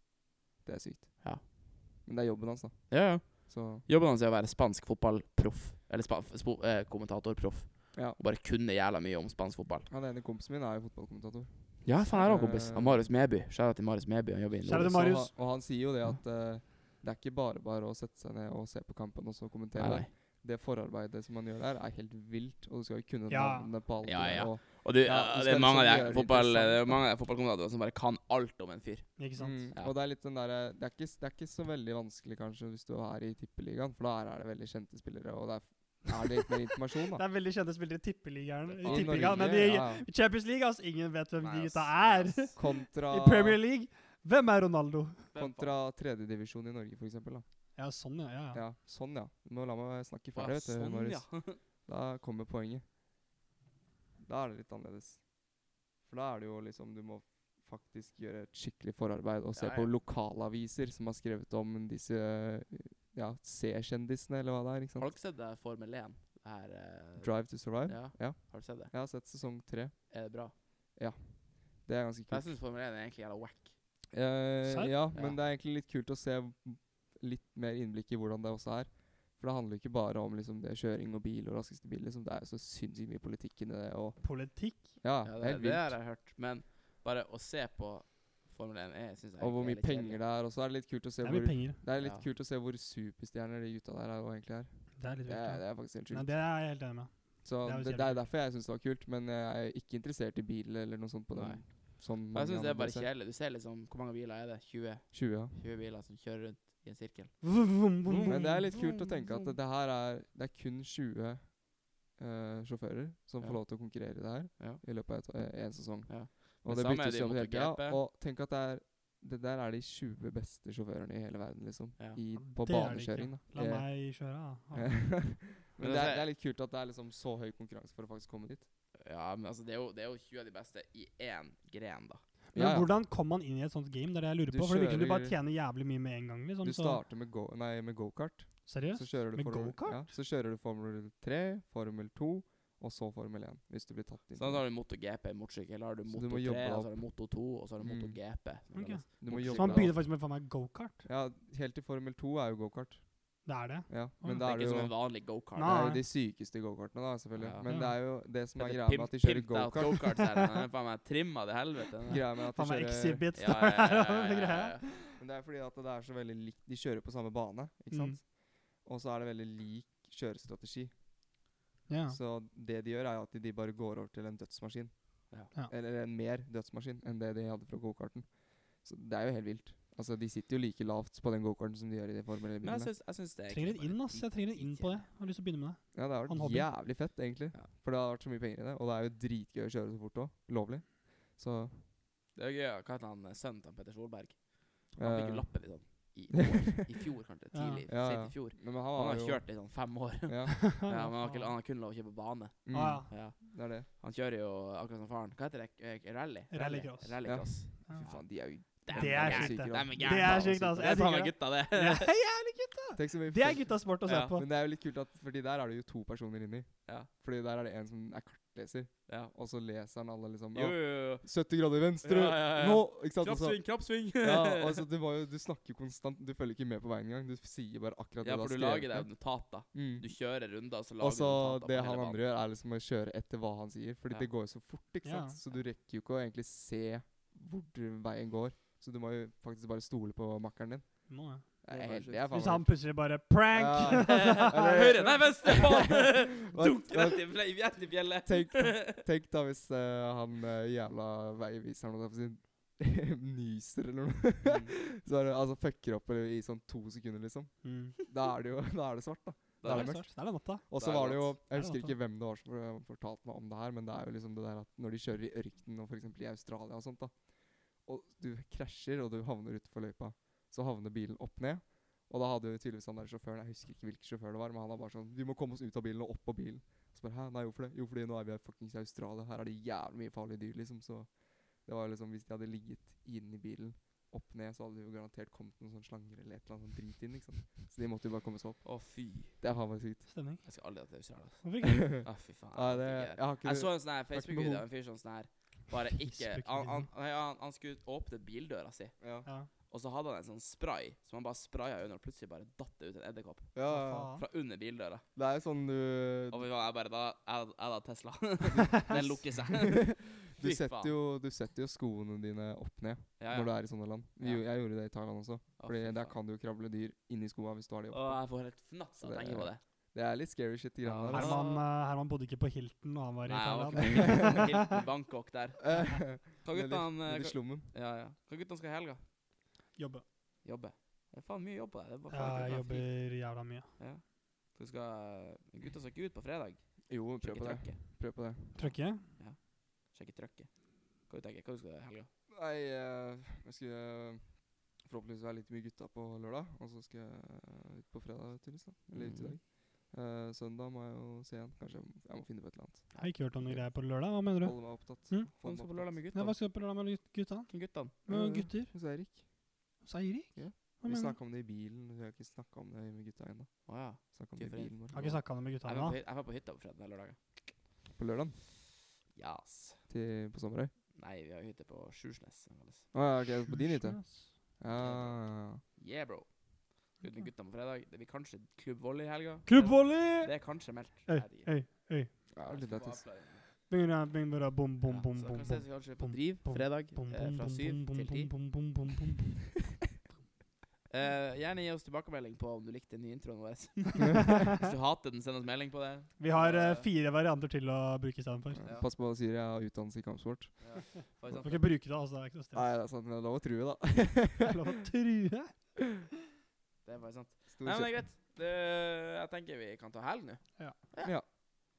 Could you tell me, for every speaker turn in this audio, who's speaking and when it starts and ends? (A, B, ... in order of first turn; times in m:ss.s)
0:00.6-0:03.8 A
0:02.9-0:09.9 B
0:07.9-0:08.2 A
0:09.9-0:13.0 A
0:11.8-0:15.2 B
0:14.7-0:15.3 C
0:14.9-0:27.0 A
0:19.7-0:20.1 B
0:23.3-0:23.7 C
0:24.0-0:29.1 B
0:29.2-0:29.7 C
0:29.4-0:37.2 A
0:37.1-0:45.3 C
0:38.7-0:39.7 B
0:38.8-0:40.1 A
0:41.4-0:42.6 B
0:42.6-0:43.6 A
0:45.3-0:45.8 B
0:45.3-0:47.4 A
0:47.8-0:48.6 C
0:48.5-0:52.8 A
0:50.3-0:51.6 B
0:54.2-0:55.3 A
0:56.0-1:05.1 A
0:59.5-0:59.9 B
1:05.0-1:08.9 B
1:07.2-1:12.6 A
1:10.1-1:10.5 B
1:12.3-1:13.8 B
1:14.1-1:26.0 A
1:14.6-1:15.0 C
1:15.1-1:15.4 B
1:24.2-1:25.0 C
1:25.2-1:30.2 B
1:29.4-1:36.8 A
1:31.2-1:31.8 C
1:32.0-1:32.3 B
1:35.0-1:38.2 C
1:37.4-1:43.1 A
1:41.3-1:49.6 B
1:45.1-1:45.6 A
1:47.4-1:48.8 C
1:48.2-2:04.1 A
1:53.4-1:58.0 B
2:02.3-2:05.1 C
2:04.7-2:08.7 A
2:05.8-2:06.3 B
2:09.0-2:12.2 B
2:12.5-2:17.0 C
2:12.5-2:12.9 A
2:14.5-2:15.4 A
2:16.6-2:24.6 A
2:18.7-2:20.1 C
2:24.3-2:30.0 B
2:26.1-2:27.1 A
2:27.8-2:28.2 A
2:28.7-2:31.0 C
2:29.2-2:30.3 A
2:31.0-2:40.2 A
2:33.4-2:34.5 C
2:34.4-2:36.0 B
2:35.6-2:36.0 C
2:37.4-2:42.3 B
2:37.6-2:38.0 C
2:42.1-2:43.3 A
2:42.4-2:45.1 C
2:43.3-2:44.9 B
2:45.1-2:50.9 A
2:47.9-2:48.2 C
2:51.9-2:52.2 C
2:52.1-3:02.9 A
3:02.6-3:05.1 B
3:03.5-3:06.7 C
3:05.9-3:11.8 A
3:12.3-3:32.1 B
3:15.0-3:16.8 A
3:17.5-3:17.8 C
3:17.9-3:20.6 A
3:20.5-3:21.5 C
3:22.7-3:23.9 A
3:22.7-3:23.1 C
3:26.5-3:34.4 C
3:27.2-3:31.0 A
3:33.0-3:50.2 A
3:34.0-3:34.4 B
3:39.1-3:39.3 B
3:40.5-3:44.8 B
3:48.2-3:52.2 B
3:51.0-4:03.0 A
3:55.0-3:55.4 C
4:01.1-4:01.6 C
4:01.7-4:02.5 B
4:02.3-4:04.8 C
4:03.5-4:07.7 A
4:03.9-4:09.0 B
4:08.2-4:50.1 A
4:14.4-4:14.7 B
4:17.6-4:18.0 C
4:19.6-4:20.2 B
4:19.6-4:20.6 C
4:20.7-4:21.4 B
4:21.5-4:22.0 C
4:48.6-4:49.4 B
4:50.1-4:50.4 C
4:50.4-5:05.0 B
4:51.4-4:51.9 C
4:51.6-4:54.7 A
4:56.0-4:56.9 C
4:59.0-4:59.3 A
4:59.2-4:59.5 C
5:03.5-5:04.2 A
5:03.7-5:04.2 C
5:05.1-5:06.4 A
5:06.3-5:11.0 B
5:08.9-5:18.4 A
5:13.2-5:14.5 B
5:15.6-5:16.2 B
5:17.9-5:19.6 B
5:19.0-5:21.4 A
5:20.8-5:21.6 B
5:21.1-5:24.6 C
5:23.3-5:29.0 B
5:23.8-5:24.4 A
5:25.6-5:27.7 A
5:29.8-5:30.0 C
5:30.4-5:42.1 B
5:32.1-5:33.7 C
5:36.9-5:38.8 A
5:38.6-5:39.1 C
5:42.3-5:52.9 A
5:48.9-5:49.4 B
5:52.9-5:53.6 B
5:53.0-5:55.3 C
5:53.4-5:55.9 A
5:55.4-5:56.4 B
5:56.1-5:58.7 C
5:57.5-5:58.0 B
5:58.1-5:59.3 A
5:59.8-6:01.2 C
6:00.4-6:05.0 A
6:03.7-6:07.4 B
6:04.9-6:06.0 C
6:08.0-6:08.4 A
6:09.1-6:09.8 B
6:09.9-6:10.7 A
6:11.0-6:12.9 B
6:12.9-6:15.6 A
6:13.5-6:14.3 C
6:14.7-6:21.5 B
6:19.4-6:22.2 C
6:22.3-6:23.0 A
6:22.4-6:23.4 B
6:23.7-6:29.3 C
6:24.9-6:28.7 B
6:30.9-6:36.9 B
6:36.2-6:38.6 C
6:38.5-6:40.9 A
6:38.6-6:38.9 B
6:40.6-6:41.7 B
6:41.3-6:42.7 C
6:42.5-6:44.6 A
6:44.4-6:45.9 C
6:46.8-6:51.3 B
6:47.5-6:48.0 A
6:51.0-6:51.3 A